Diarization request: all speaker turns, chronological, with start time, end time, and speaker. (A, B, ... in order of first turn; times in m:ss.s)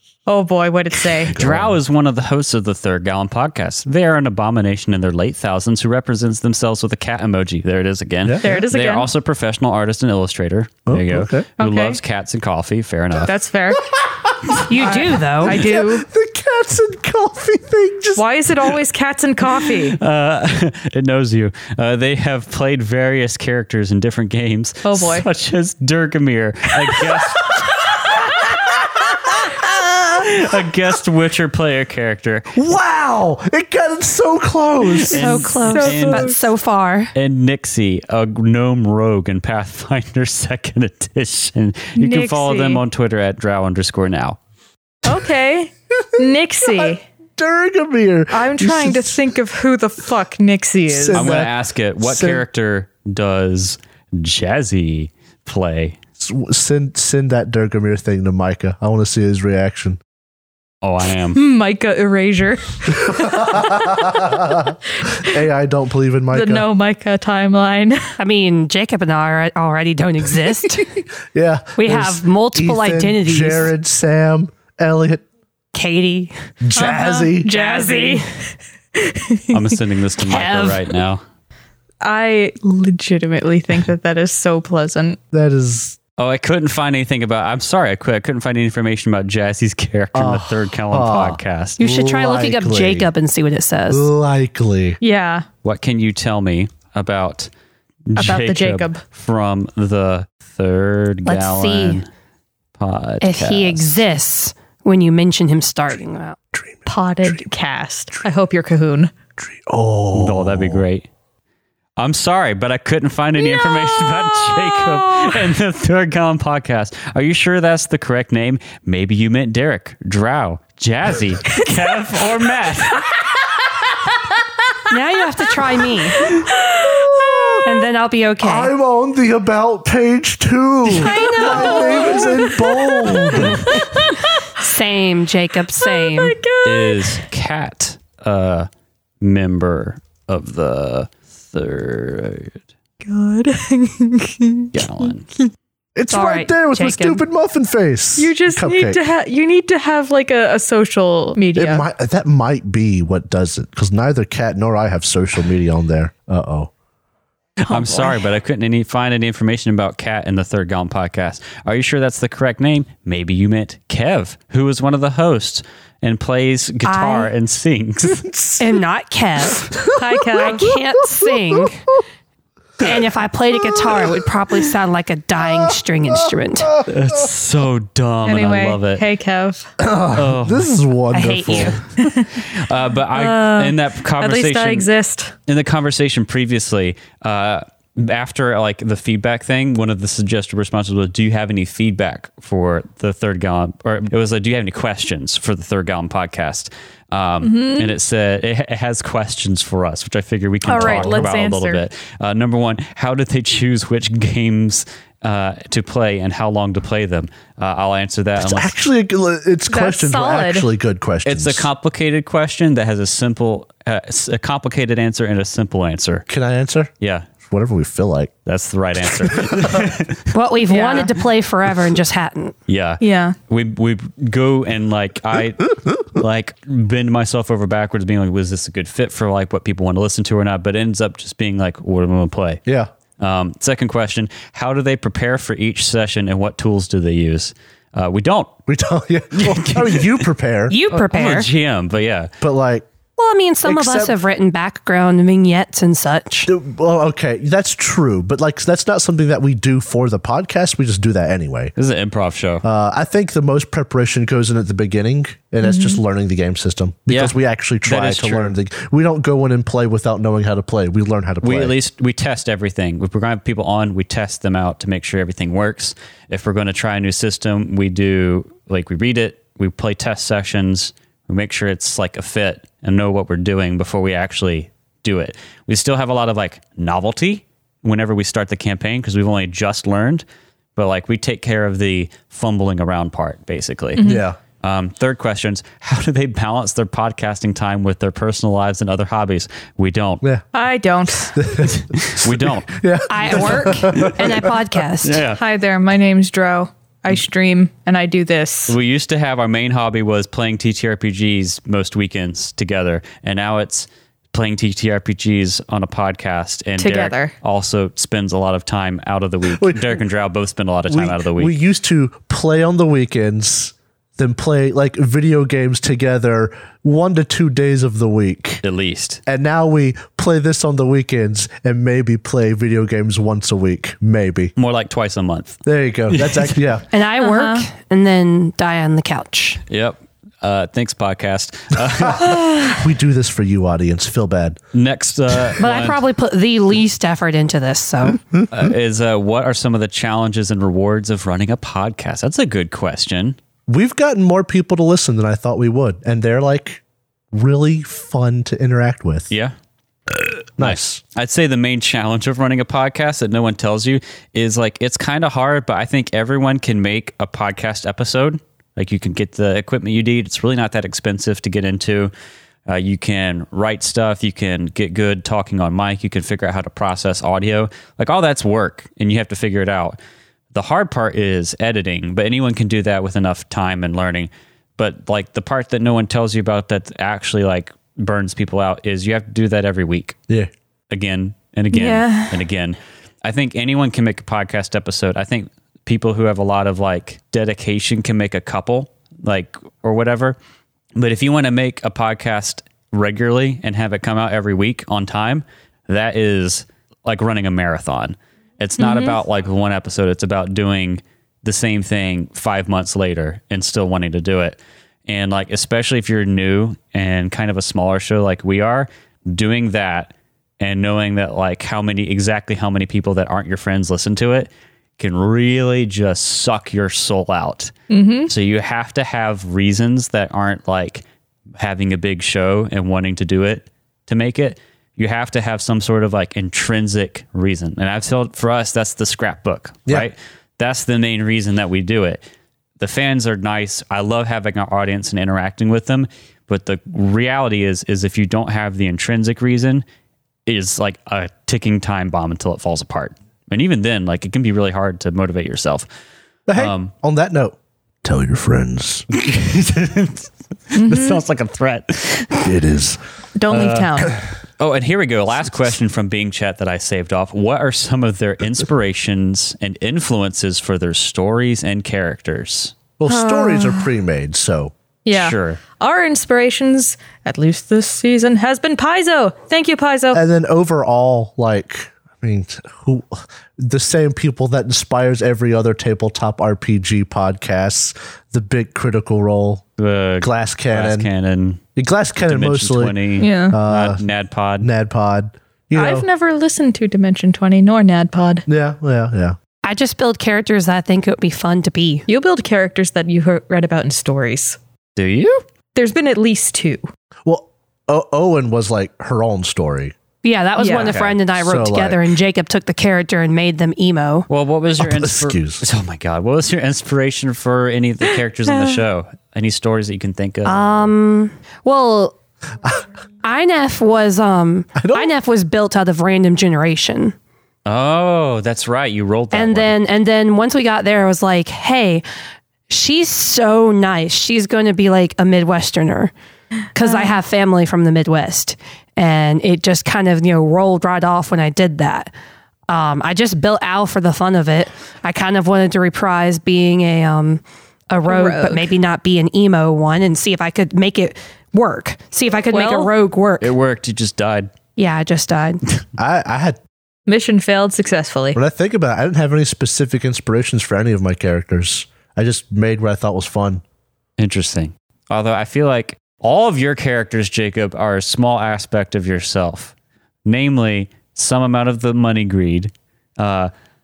0:00.3-0:01.3 A
0:01.2-0:01.8 B
0:01.4-0:13.3 C
0:08.2-0:08.6 B
0:08.4-0:09.1 A
0:10.9-0:11.5 B
0:11.6-0:12.0 A
0:13.2-0:13.9 A
0:13.9-0:18.2 B
0:14.6-0:15.6 D
0:14.7-0:16.0 A
0:18.1-0:20.0 A
0:19.9-0:27.5 C
0:24.8-0:25.2 A
0:29.4-0:32.5 C
0:32.5-0:35.5 B
0:35.1-0:37.1 D
0:35.1-0:36.5 A
0:35.8-0:36.4 C
0:37.1-0:44.4 C
0:42.0-0:42.8 A
0:45.0-0:47.0 A
0:46.6-0:49.2 B
0:48.3-0:51.3 A
0:50.9-0:52.4 B
0:51.1-0:56.0 C
0:56.2-1:00.0 B
1:00.8-1:01.4 C
1:01.3-1:03.6 A
1:02.9-1:06.7 B
1:06.3-1:08.1 A
1:08.2-1:10.9 D
1:11.3-1:15.2 B
1:11.8-1:13.7 D
1:15.7-1:16.3 D
1:16.6-1:17.5 B
1:16.8-1:18.4 A
1:17.5-1:18.2 D
1:18.9-1:19.5 A
1:19.5-1:21.2 C
1:20.2-1:20.9 D
1:22.0-1:25.2 A
1:25.3-1:26.0 B
1:26.2-1:31.8 C
1:30.1-1:33.1 B
1:31.8-1:34.1 D
1:33.9-1:35.0 B
1:35.0-1:35.4 A
1:35.6-1:37.5 C
1:38.1-1:42.1 C
1:38.2-1:39.0 A
1:41.2-1:42.0 D
1:42.8-1:44.0 C
1:43.2-1:46.4 D
1:46.5-1:47.4 B
1:46.9-1:49.1 A
1:49.4-1:50.8 B
1:50.1-1:51.1 C
1:52.0-2:03.0 C
1:53.4-1:55.5 A
2:04.9-2:06.4 D
2:06.3-2:07.6 A
2:07.1-2:07.6 B
2:07.6-2:08.7 D
2:08.4-2:13.8 B
2:10.9-2:12.5 D
2:11.0-2:14.5 A
2:14.6-2:16.4 D
2:15.8-2:17.2 A
2:16.6-2:18.7 C
2:19.2-2:22.6 C
2:23.0-2:25.1 A
2:24.7-2:25.3 C
2:26.0-2:29.0 B
2:26.1-2:27.2 D
2:28.2-2:31.8 A
2:31.6-2:36.7 B
2:37.6-2:48.2 C
2:46.8-2:47.3 D
2:48.2-2:48.6 B
2:48.6-2:51.9 D
2:49.8-2:51.7 B
2:49.9-2:50.6 A
2:52.8-2:56.8 D
2:53.8-2:54.3 B
2:55.4-2:57.2 B
2:56.9-2:59.0 C
2:58.2-2:59.7 A
2:59.8-3:01.8 B
3:00.1-3:00.7 C
3:01.1-3:01.8 D
3:02.0-3:02.4 A
3:02.3-3:04.9 C
3:03.1-3:05.3 A
3:05.5-3:28.8 C
3:17.4-3:17.9 A
3:20.6-3:21.8 A
3:20.7-3:21.3 B
3:28.4-3:31.7 B
3:29.7-3:30.7 A
3:31.2-3:36.2 C
3:36.3-3:36.9 B
3:37.0-3:37.3 C
3:37.4-3:38.3 B
3:38.4-3:40.3 C
3:39.2-3:39.8 B
3:40.3-3:42.6 D
3:40.7-3:41.1 A
3:42.7-3:52.6 C
3:43.0-3:43.4 A
3:53.2-3:58.5 C
3:58.7-4:00.8 B
3:59.3-4:00.2 C
4:00.7-4:01.5 D
4:00.9-4:02.3 C
4:02.4-4:02.9 B
4:03.2-4:06.5 D
4:03.6-4:04.2 B
4:06.4-4:11.7 B
4:11.8-4:12.6 C
4:12.6-4:21.8 B
4:15.6-4:16.0 A
4:17.1-4:18.5 C
4:21.4-4:40.2 C
4:40.8-4:44.0 C
4:44.0-4:44.2 A
4:44.0-4:44.4 B
4:44.6-4:50.2 C
4:50.5-4:51.6 A
4:51.3-4:54.6 B
4:52.0-4:52.7 C
4:53.1-4:55.2 D
4:53.3-4:54.2 C
4:55.0-4:55.4 C
4:55.3-4:58.8 A
4:58.7-5:11.6 C
5:06.8-5:07.3 A
5:09.6-5:10.0 B
5:10.9-5:18.6 B
5:18.6-5:19.2 C
5:19.3-5:24.5 B
5:24.6-5:26.6 C
5:25.6-5:26.9 B
5:26.9-5:29.6 D
5:27.2-5:27.7 A
5:29.7-5:32.5 C
5:32.0-5:34.6 B
5:34.7-5:36.0 C
5:35.6-5:38.2 D
5:38.5-5:43.4 C
5:43.7-5:49.3 B
5:50.6-5:51.0 B
5:50.6-6:02.1 C
6:02.7-6:10.0 C
6:10.5-6:20.2 C
6:20.9-6:30.4 C
6:21.7-6:22.4 A
6:30.9-6:57.7 C
6:38.8-6:39.2 A
6:57.9-6:58.3 A
6:58.3-7:01.0 C
7:01.6-7:12.2 C
7:12.8-7:19.8 C
7:20.4-7:25.9 C
7:26.5-7:29.1 B
7:26.6-7:26.9 C
7:29.1-7:32.4 C
7:30.7-7:31.2 A
7:32.4-7:33.0 B
7:33.4-7:34.1 A
7:33.5-7:42.7 C
7:43.0-7:44.7 B
7:43.1-7:43.9 A
7:45.0-7:50.2 A
7:45.1-7:45.6 C
7:50.1-7:59.6 B
7:59.8-8:01.6 C
8:00.2-8:01.1 B
8:01.8-8:03.0 B
8:02.2-8:04.7 C
8:03.2-8:03.6 A
8:03.5-8:04.0 B
8:04.6-8:06.1 B
8:05.7-8:08.4 A
8:08.5-8:09.4 B
8:09.6-8:12.1 D
8:12.1-8:14.6 A
8:15.0-8:15.4 C
8:15.7-8:16.9 A
8:17.2-8:20.0 B
8:20.2-8:24.2 D
8:20.6-8:20.9 A
8:20.7-8:21.2 C
8:21.4-8:22.2 B
8:24.3-8:30.8 C
8:24.8-8:25.6 B
8:30.4-8:32.2 D
8:33.2-8:37.1 D
8:34.8-8:35.1 B
8:37.6-8:39.8 C
8:39.3-8:42.0 D
8:42.7-8:46.1 D
8:46.7-8:52.1 D
8:52.7-9:03.5 D
8:58.1-8:58.7 A
9:02.5-9:02.9 A
9:03.4-9:04.5 C
9:04.8-9:05.6 D
9:06.0-9:06.6 B
9:07.1-9:08.4 A
9:08.3-9:13.6 B
9:14.2-9:19.7 C
9:20.2-9:23.5 C